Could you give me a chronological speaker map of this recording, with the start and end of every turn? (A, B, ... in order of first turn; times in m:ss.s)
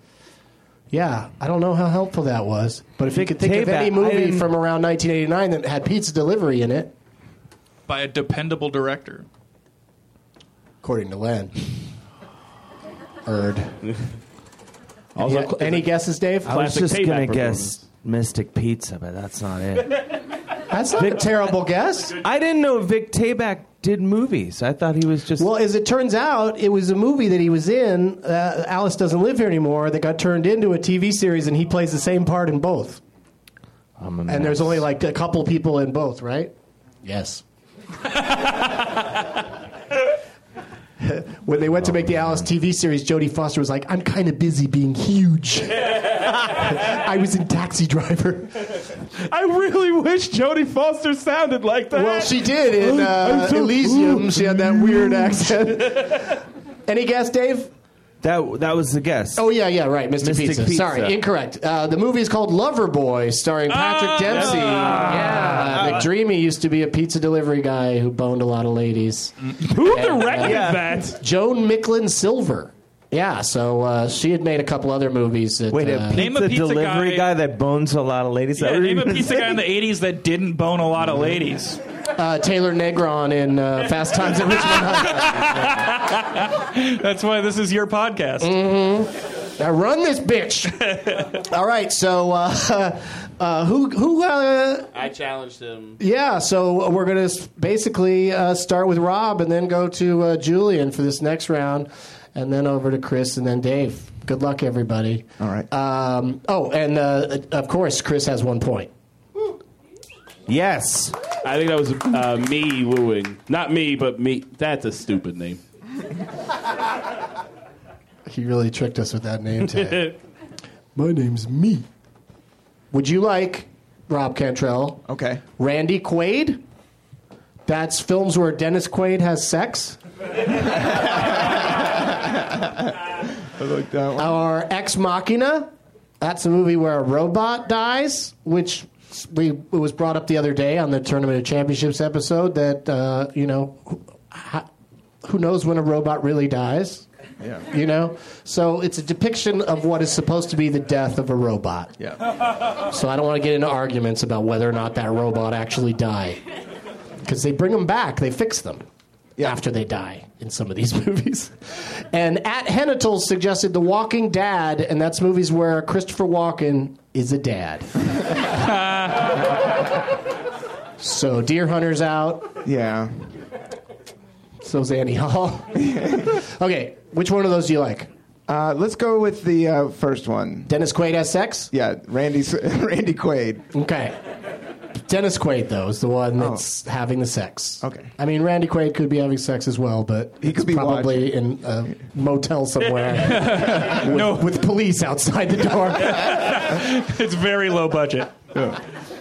0:00.9-0:06.9 A
0:03.0-0:04.5 B
0:07.9-0:09.2 C
0:10.8-0:11.5 A
0:13.2-0:13.9 A
0:15.1-0:15.9 D
0:15.2-0:16.6 A
0:16.4-0:17.8 D
0:16.5-0:20.1 B
0:20.7-0:22.2 A
0:22.2-0:25.5 B
0:25.4-0:33.0 A
0:34.0-0:34.8 B
0:34.3-0:36.5 A
0:37.0-0:37.4 A
0:41.0-0:48.8 A
0:49.2-0:55.5 D
0:51.9-0:57.7 A
0:58.2-0:59.5 B
0:59.4-1:16.2 A
1:00.2-1:01.2 B
1:03.7-1:05.7 D
1:04.3-1:06.1 B
1:09.6-1:11.2 D
1:10.4-1:10.9 B
1:15.7-1:19.6 B
1:16.1-1:17.3 C
1:18.6-1:21.8 C
1:22.2-1:25.8 A
1:25.1-1:28.5 C
1:28.4-1:30.8 A
1:30.9-1:31.3 C
1:31.3-1:34.9 A
1:34.9-1:36.0 D
1:36.0-1:48.9 A
1:45.4-1:45.7 E
1:50.5-1:51.2 B
1:51.4-1:55.6 D
1:58.2-2:00.2 A
1:59.6-2:00.1 D
2:01.0-2:01.8 A
2:02.9-2:05.0 A
2:05.1-2:05.4 E
2:05.6-2:06.6 A
2:07.7-2:10.0 A
2:10.9-2:12.3 E
2:13.4-2:14.3 E
2:14.2-2:24.7 A
2:25.2-2:27.0 A
2:27.7-2:32.0 A
2:32.9-2:36.4 A
2:37.2-2:38.8 A
2:39.4-2:47.9 A
2:48.6-2:49.3 C
2:51.0-2:52.5 A
2:52.6-2:53.2 E
2:54.6-2:58.1 A
2:55.8-2:56.3 E
2:58.5-3:00.7 E
3:00.7-3:01.7 A
3:01.7-3:03.7 E
3:03.7-3:04.2 A
3:05.0-3:16.6 A
3:06.4-3:06.6 E
3:07.8-3:08.1 E
3:10.4-3:11.4 E
3:13.2-3:14.6 C
3:16.0-3:18.3 C